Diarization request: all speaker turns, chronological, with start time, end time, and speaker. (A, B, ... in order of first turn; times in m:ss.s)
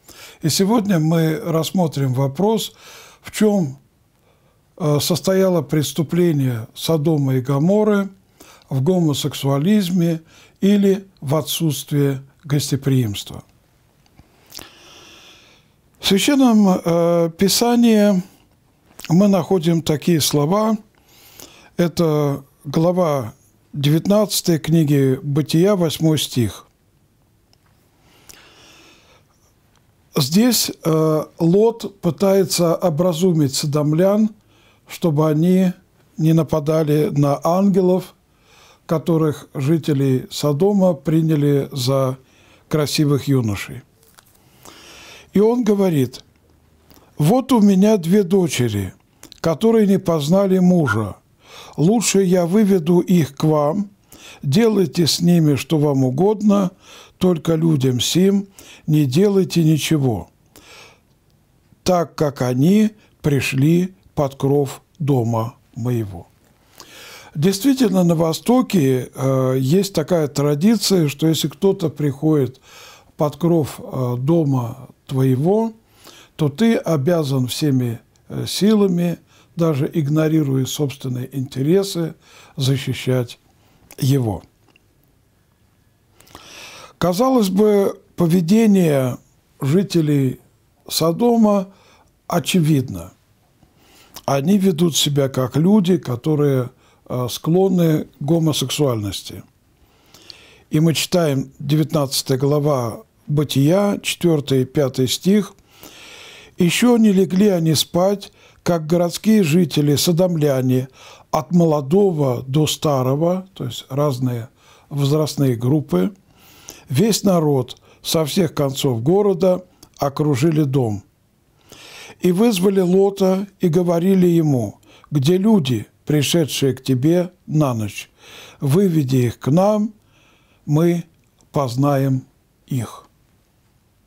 0:00.4-0:03.8 A
0:04.8-0:08.1 A
0:08.7-0:13.4 A
0:16.0-0:18.2 A
0:19.1-0:20.8 A
0:21.8-0:26.7 A
0:30.2-0:34.3 A
0:34.9-0:38.2 A
0:38.9-0:43.8 A
0:45.3-0:46.2 A
0:47.2-0:51.2 A
0:51.8-0:53.9 A
0:54.4-1:00.3 A
1:01.8-1:06.3 A
1:07.4-1:12.6 A
1:13.2-1:15.8 A
1:16.4-1:23.4 A
1:24.0-1:24.4 A
1:27.0-1:31.7 A
1:32.3-1:33.1 A
1:34.3-1:39.4 A
1:40.7-1:45.5 A
1:46.6-1:56.1 A
1:56.9-2:01.0 A
2:02.2-2:09.9 A
2:10.7-2:13.1 A